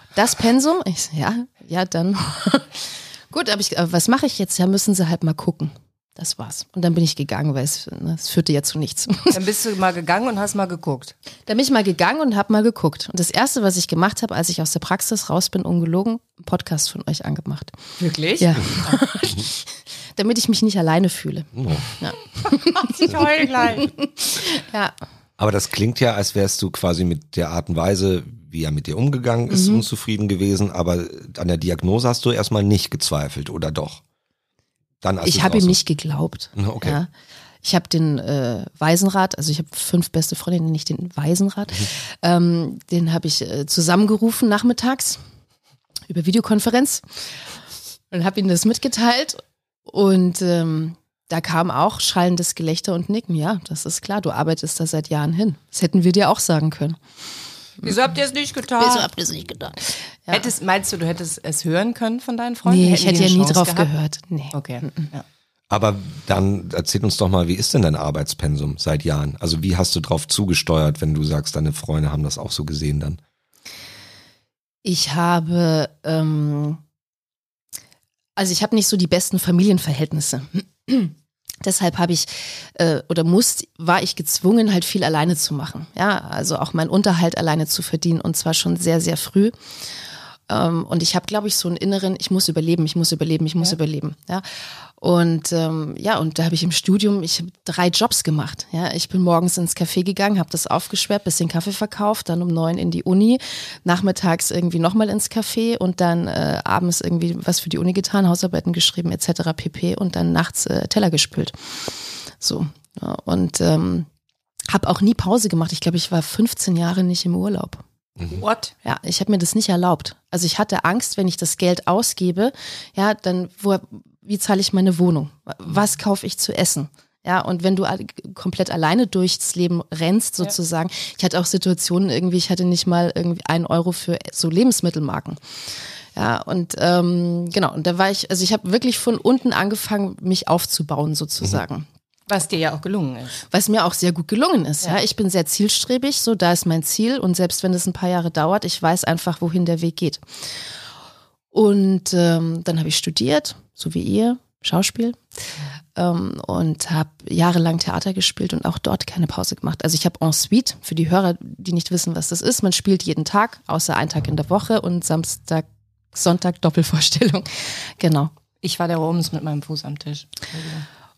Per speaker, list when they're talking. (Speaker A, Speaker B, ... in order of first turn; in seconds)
Speaker A: 0.1-9.4, 11.5-17.7, 18.4-24.9, 29.5-29.9, 35.2-37.1, 37.6-45.2, 46.1-47.2, 48.1-57.0, 58.8-60.5, 62.7-65.1, 74.8-76.8, 78.4-89.5, 90.5-94.4, 95.0-114.1, 114.7-117.8, 118.8-135.4, 136.2-141.9, 143.5-150.2, 151.5-155.2, 156.0-168.3
Speaker B: 9.3-11.1, 18.0-19.0, 22.5-23.9, 57.8-59.1, 60.3-63.9, 64.5-65.2, 118.3-118.7, 142.3-143.4, 168.6-170.9
Speaker C: 21.5-21.9, 25.4-34.0, 35.0-35.8, 36.6-37.0, 65.7-73.2, 118.2-118.4